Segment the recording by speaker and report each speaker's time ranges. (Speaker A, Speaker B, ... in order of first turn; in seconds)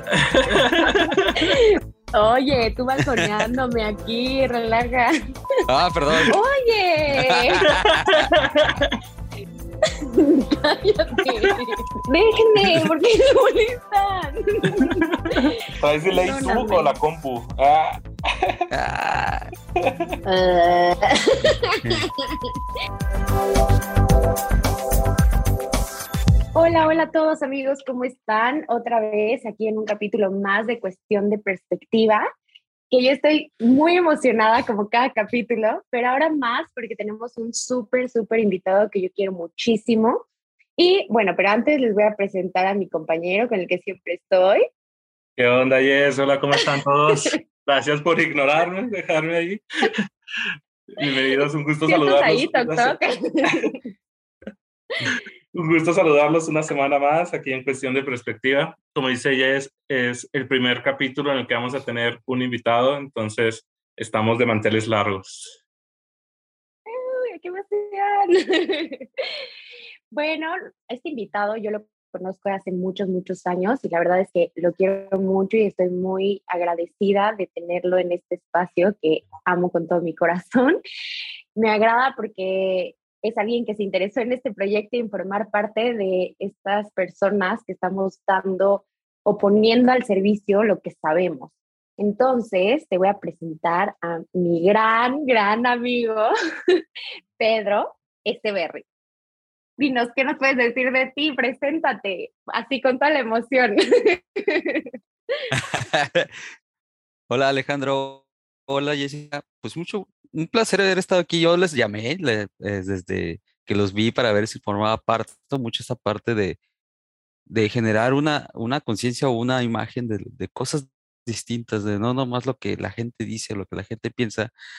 Speaker A: 0.2-1.4, 7.8-8.9, 14.8-18.7, 45.4-49.6, 51.0-53.0, 55.0-65.6
Speaker B: 0.4-5.1, 6.3-7.7, 10.1-16.9, 20.2-22.5, 26.5-32.2, 32.9-40.2, 40.8-44.6, 51.0-53.8, 66.9-69.0, 70.1-80.8, 81.6-96.3, 97.4-98.9, 99.8-104.8
Speaker C: 5.7-6.4, 7.2-8.3, 18.7-19.5, 105.5-106.3, 107.3-116.6, 117.5-124.5